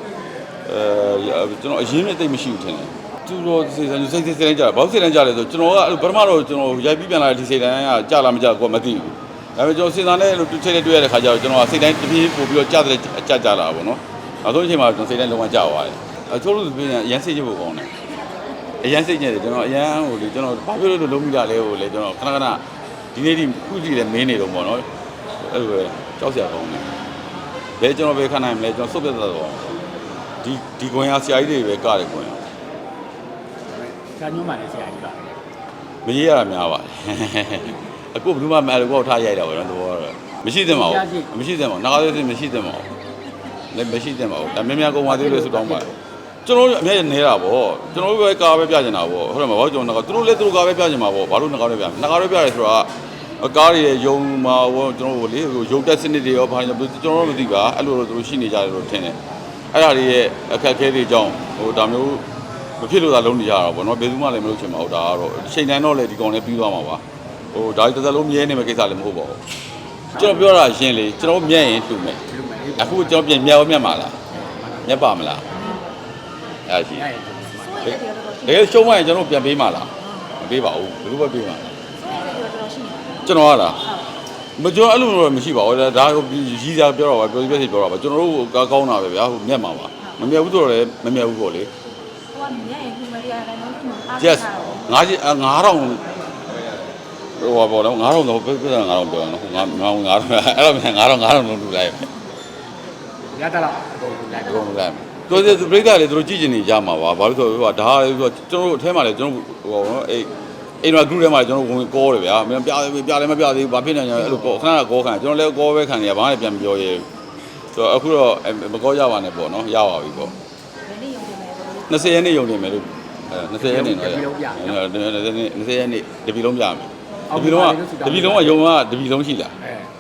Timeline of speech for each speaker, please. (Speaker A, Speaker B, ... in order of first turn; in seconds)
Speaker A: 0.7-17.9, 18.8-22.6, 23.1-24.9, 25.4-26.9, 27.8-29.8, 30.4-32.4, 36.0-42.9, 43.7-52.9, 53.4-59.2, 59.7-62.2, 62.8-67.0, 67.5-69.4, 70.2-72.2, 72.8-74.2, 74.8-75.5, 76.7-77.1, 77.8-81.8, 83.2-83.9, 84.6-91.7, 94.2-96.0, 97.4-102.1, 104.4-110.3, 110.8-117.1, 117.7-120.3, 121.9-129.6
Speaker B: 33.7-35.4, 40.7-41.3, 45.1-45.9, 72.3-73.2, 74.5-75.0, 77.0-77.8, 103.3-104.7, 105.3-105.8, 123.6-124.8, 127.3-128.6, 129.6-129.9
Speaker C: 78.0-78.5, 82.0-83.2, 92.3-94.8, 120.9-121.8